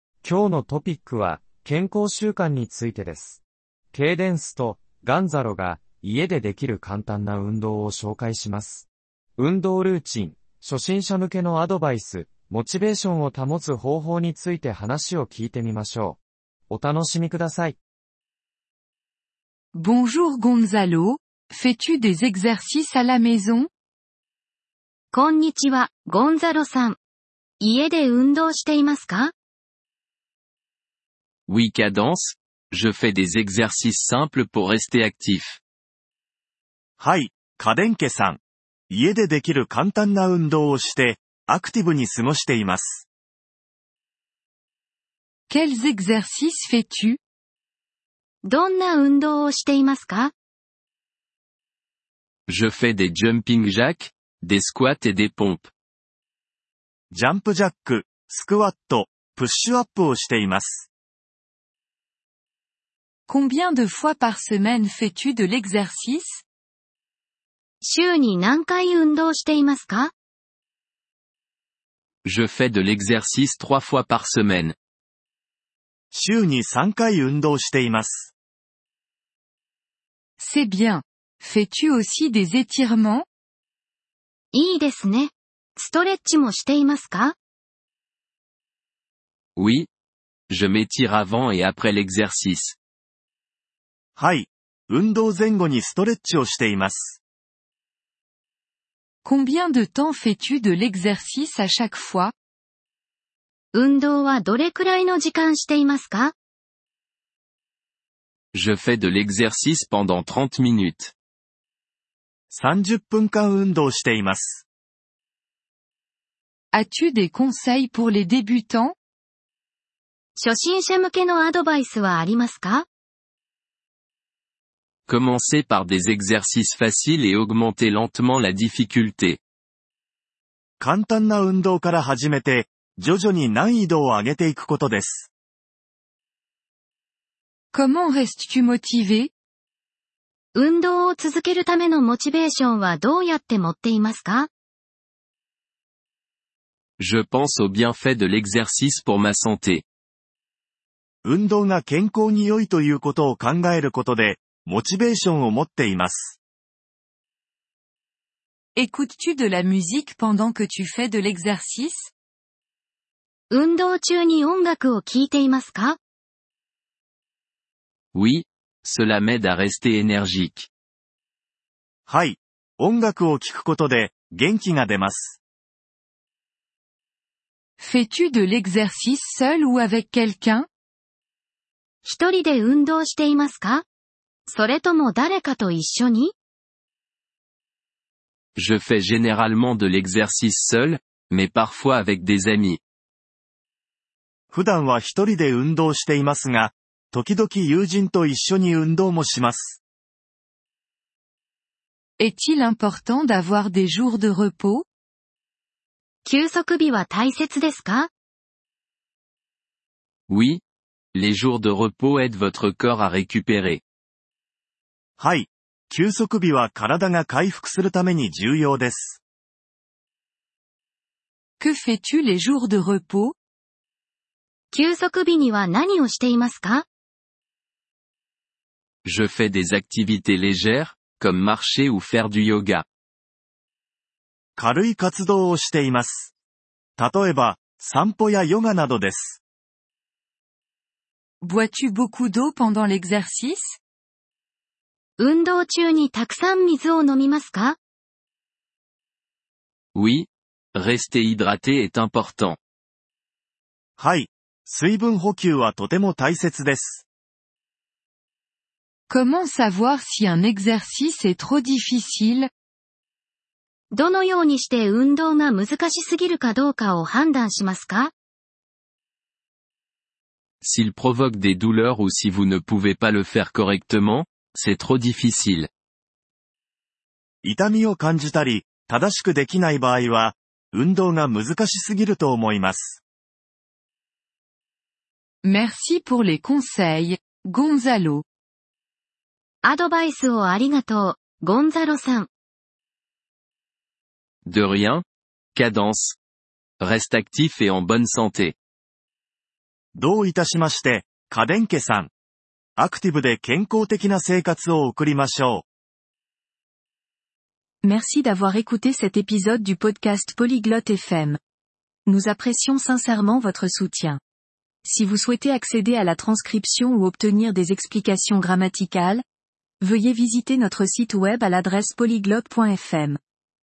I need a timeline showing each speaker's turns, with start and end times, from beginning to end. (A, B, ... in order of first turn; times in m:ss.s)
0:00.2-0:03.4 A
0:03.9-0:16.2 A
0:16.7-0:17.8 A
0:19.7-0:23.7 B
0:25.1-0:27.0 C
0:27.6-0:29.3 C
0:31.5-0:35.6 D
0:37.0-0:43.1 E
0:45.5-0:47.2 B
0:48.4-0:50.3 C
0:52.5-0:55.7 D
0:57.1-1:00.9 E
1:03.3-1:06.4 B
1:07.8-1:10.1 C
1:12.2-1:14.8 D
1:16.1-1:18.3 E
1:20.4-1:23.3 B
1:24.5-1:27.4 C
1:29.6-1:29.9 D
1:30.5-1:32.8 D
1:34.2-1:37.2 E
1:39.2-1:42.3 B
1:43.7-1:46.3 C
1:48.5-1:51.2 D
1:52.5-1:54.6 E
1:56.7-1:59.0 B
2:00.4-2:02.9 C
2:05.1-2:09.4 D
2:10.8-2:15.3 E
2:17.7-2:19.3 B
2:20.6-2:24.5 C
2:27.0-2:29.9 D
2:31.2-2:36.4 E
2:38.8-2:42.1 B
2:43.5-2:46.0 C
2:48.1-2:50.7 D
2:52.1-2:55.4 E
2:57.8-3:00.7 B
3:02.0-3:03.8 C
3:04.5-3:06.3 C
3:08.6-3:12.8 D
3:14.5-3:19.8 E
3:22.2-3:24.8 B
3:26.2-3:28.1 C
3:30.3-3:30.6 D
3:31.1-3:33.8 D
3:35.2-3:39.2 E
3:41.6-3:43.4 B
3:44.7-3:46.9 C
3:49.0-3:52.9 D
3:54.6-3:56.3 E
3:57.0-3:59.4 E
4:01.4-4:03.8 B
4:05.2-4:07.8 C
4:10.0-4:12.6 D
4:14.0-4:17.0 E
4:19.1-4:22.5 B
4:23.9-4:28.1 C
4:30.6-4:35.7 D
4:37.4-4:43.0 E
4:45.4-4:48.2 B
4:49.6-4:52.3 C
4:54.4-4:55.0 D
4:55.6-4:56.2 D
4:56.8-4:58.6 D
5:00.0-5:02.1 E
5:02.8-5:05.6 E
5:07.8-5:11.4 B
5:12.1-5:14.2 B
5:14.8-5:19.2 B
5:19.8-5:23.2 B